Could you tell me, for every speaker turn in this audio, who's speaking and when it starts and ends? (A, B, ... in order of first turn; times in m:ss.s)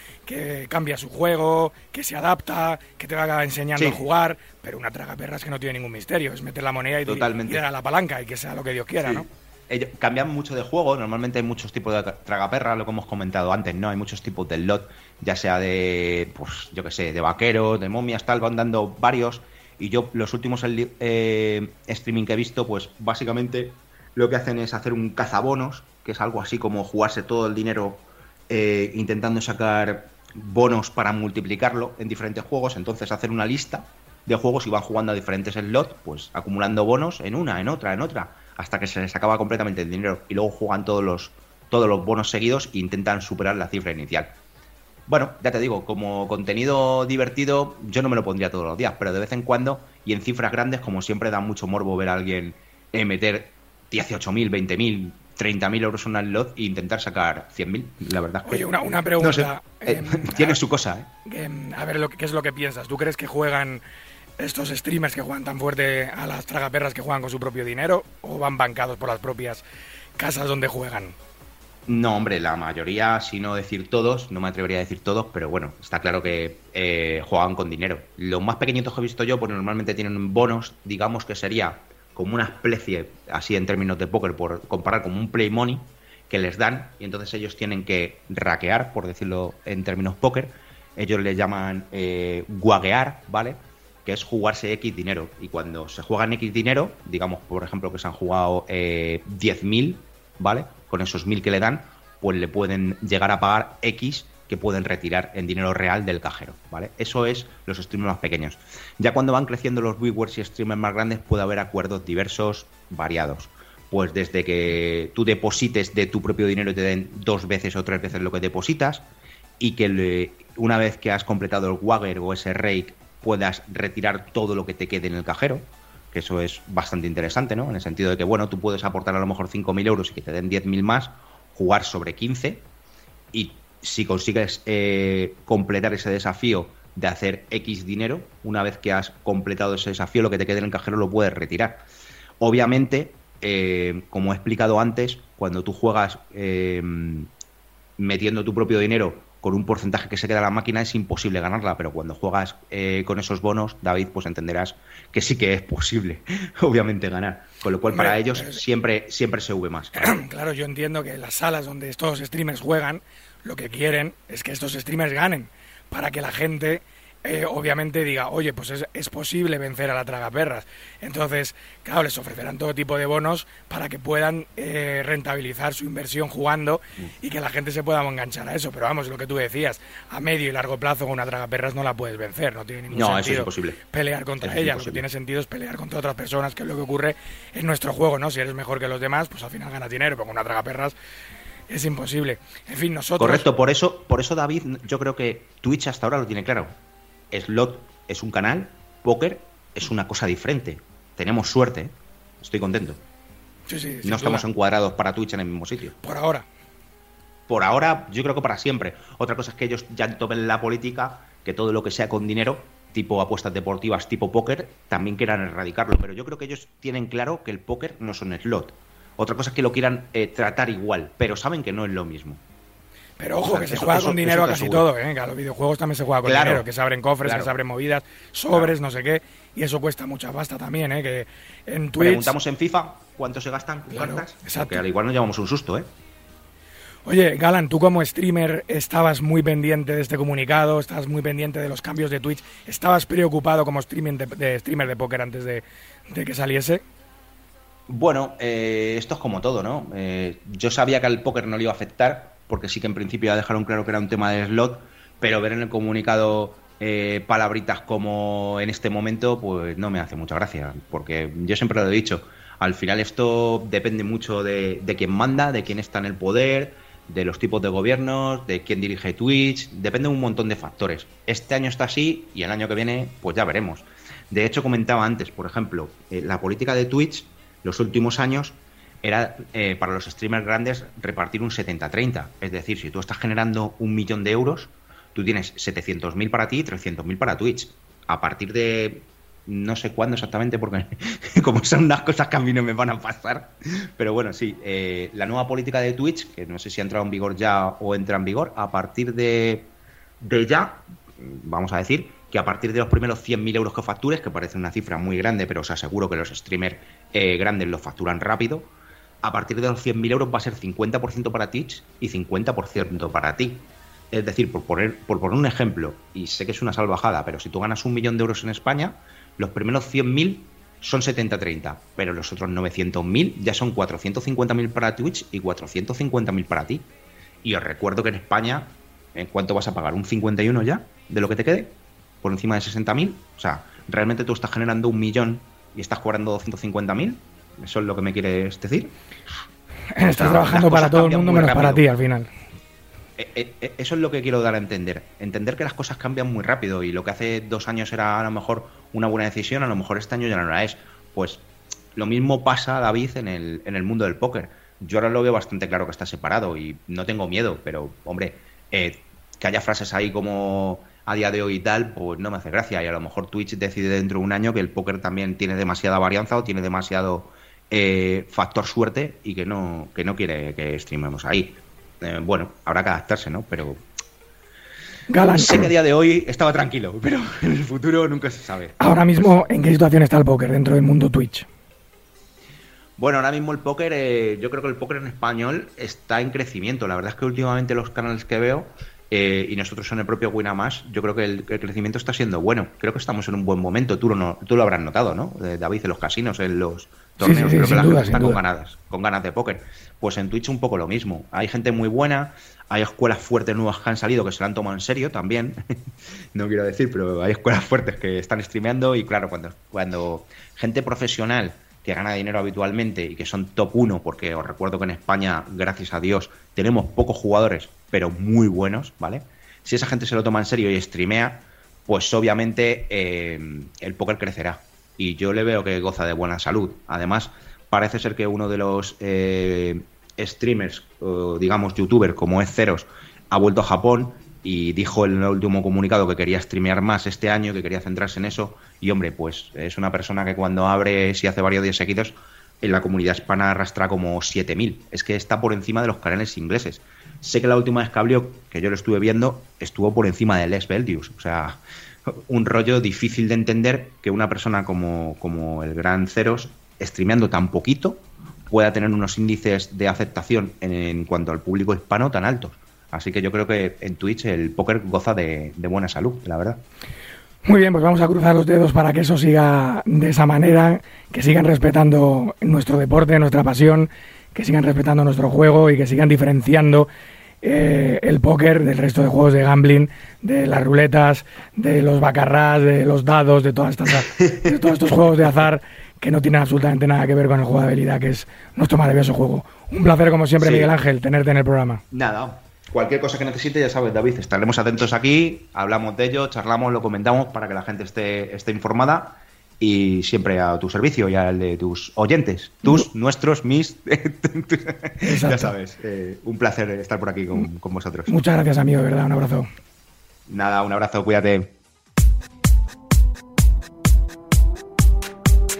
0:00.3-0:09.3 A
0:03.8-0:04.0 B
0:07.0-0:07.6 B
0:09.0-0:44.3 B
0:45.1-1:01.1 B
0:58.4-1:00.6 A
1:01.2-1:03.8 A
1:04.4-1:09.6 A
1:10.2-1:11.2 A
1:11.9-1:59.1 B
1:59.6-2:12.7 B
2:13.3-2:21.8 B
2:22.4-2:27.3 B
2:28.0-2:40.2 B
2:37.9-2:38.6 A
2:40.0-3:10.9 A
3:02.9-3:03.8 B
3:04.4-3:05.1 B
3:11.7-3:13.5 A
3:13.2-3:16.7 B
3:17.3-3:23.0 B
3:23.7-3:24.5 A
3:24.0-3:26.0 B
3:26.0-3:26.5 A
3:27.5-3:42.4 B
3:43.2-3:52.4 A
3:43.5-3:44.9 B
3:46.2-3:46.7 B
3:47.2-3:47.6 B
3:52.0-3:55.9 B
3:53.9-3:54.8 A
3:57.1-4:06.8 A
4:07.9-5:26.9 B
5:27.4-5:38.9 B
5:40.0-5:42.3 A
5:40.0-5:41.9 B
5:43.2-5:51.4 B
5:52.0-6:13.8 B
6:15.1-6:15.7 A
6:15.3-6:19.4 B
6:18.8-6:21.5 A
6:23.0-6:45.6 B
6:37.2-6:38.4 A
6:46.3-7:46.6 B
7:47.5-7:56.9 A
7:57.4-8:11.8 A
8:04.2-8:04.5 B
8:10.4-8:10.7 B
8:11.9-8:28.2 B
8:25.0-8:25.5 A
8:28.1-8:29.5 A
8:30.3-8:31.5 B